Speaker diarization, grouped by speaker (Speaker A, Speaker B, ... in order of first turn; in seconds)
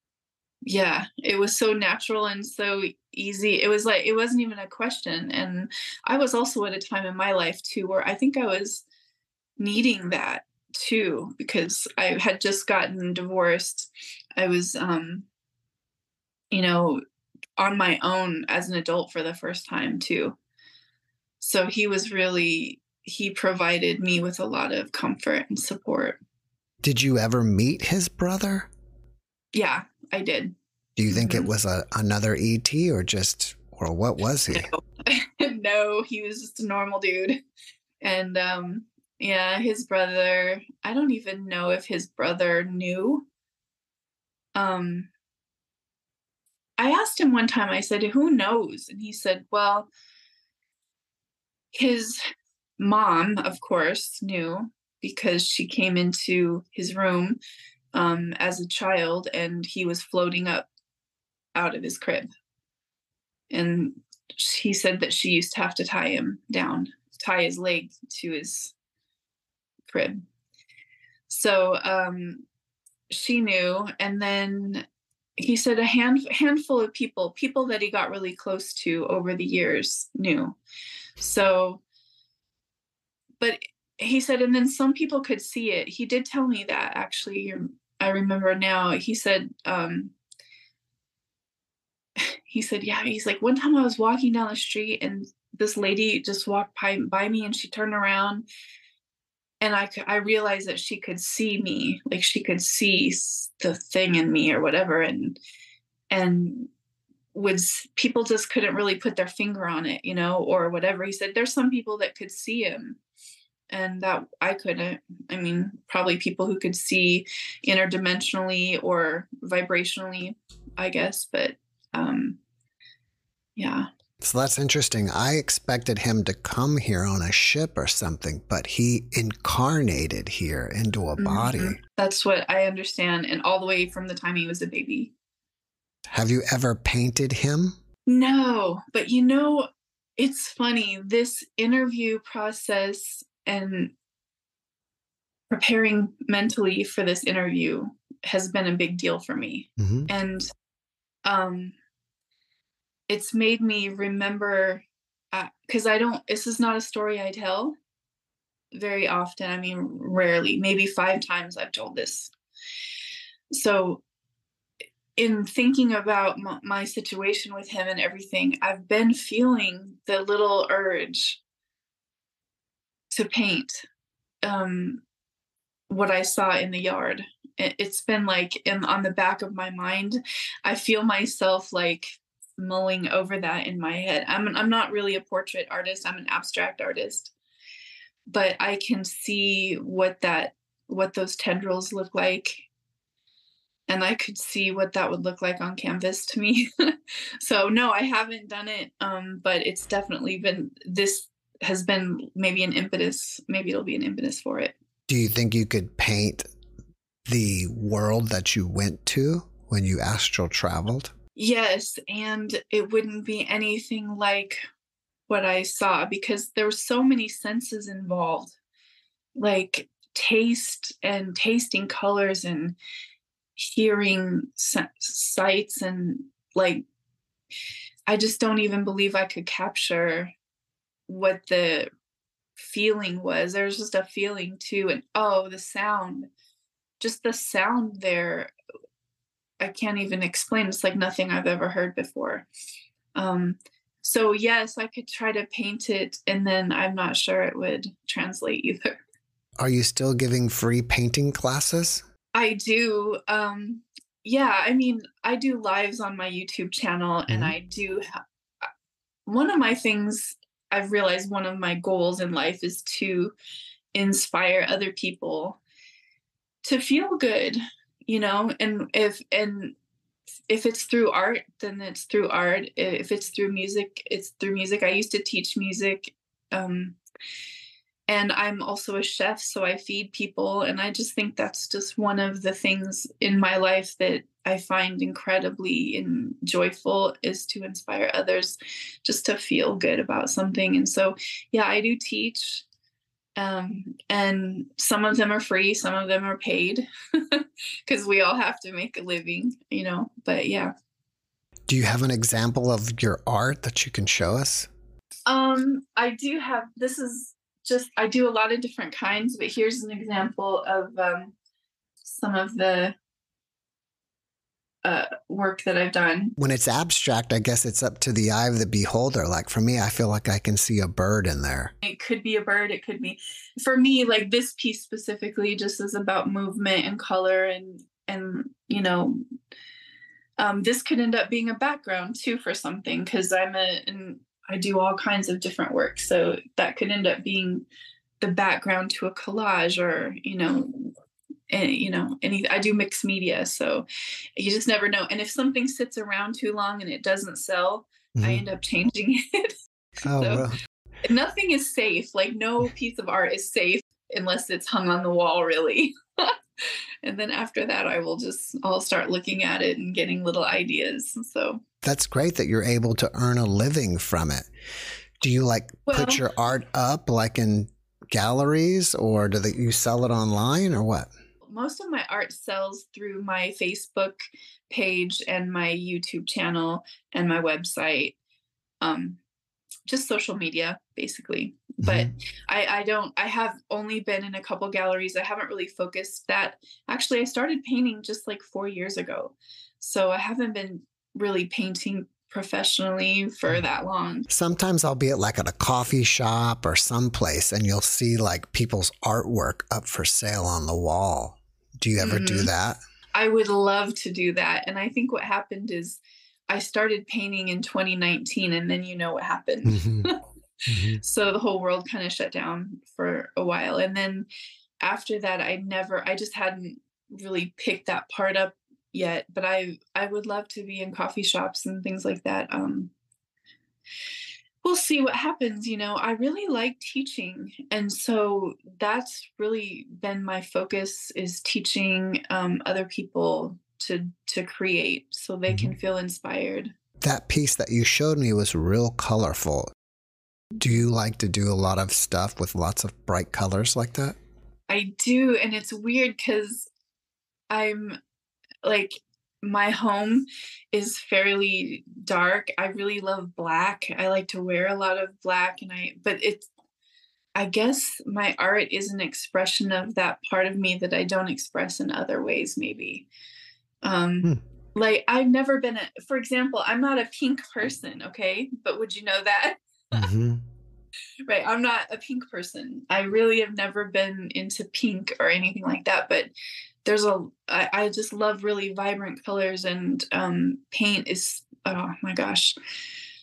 Speaker A: 0.7-8.8, 9.6-15.3, 16.5-17.0, 17.6-20.4, 21.4-26.2, 29.5-30.5, 31.1-31.5, 35.0-37.4, 38.0-43.3, 44.6-45.1, 46.8-49.9, 51.7-52.2, 52.8-57.4, 57.9-60.7, 61.5-62.3, 63.5-68.7, 69.9-70.2, 71.3-72.5, 73.1-74.9, 75.4-80.6, 81.2-81.8, 83.4-90.1, 92.2-98.5, 99.6-105.4, 106.1-106.7, 107.3-113.0, 113.7-122.4, 123.6-123.9, 131.2-135.1, 138.1-143.9, 145.5-150.5, 151.2-151.7, 153.1-157.8, 158.7-162.3, 163.5-164.0, 165.2-171.4, 173.1-173.8, 174.4-175.0, 175.9-187.3, 188.3-192.7, 193.9-204.8, 211.4-214.6, 215.3-218.6, 219.3-222.8, 223.6-226.8, 228.1-230.3, 231.1-231.9, 232.6-236.3, 237.0-238.5, 239.6-242.5, 243.2-249.0, 252.3-258.1, 259.3-263.3, 263.9-265.6, 266.6-269.8, 270.5-277.0, 278.1-292.6, 293.4-300.7, 305.3-311.4, 312.1-312.9, 314.8-316.4, 321.8-329.2, 330.4-337.6, 338.2-340.9, 341.5-343.9, 344.4-349.6, 350.1-350.5, 351.1-361.6, 365.9-366.2, 371.5-374.2, 374.7-378.1, 378.8-379.2, 379.9-394.3, 402.0-402.5, 403.1-410.2, 410.9-414.3, 414.8-422.9, 424.6-436.7, 444.7-446.7, 447.5-448.0, 448.6-456.5, 457.4-463.1, 463.8-470.1, 471.3-476.3, 476.9-482.5
Speaker B: 26.8-28.7, 31.0-34.7, 124.2-131.8, 136.1-137.8, 149.8-150.1, 205.1-206.5, 207.3-211.1, 249.6-252.0, 257.3-257.6, 301.7-304.7, 316.4-321.7, 348.2-348.4, 350.0-350.6, 361.8-364.5, 365.2-371.1, 381.8-382.1, 394.3-402.8, 409.7-410.1, 410.7-411.0, 435.5-435.7, 437.0-439.7, 440.6-444.2, 469.9-470.4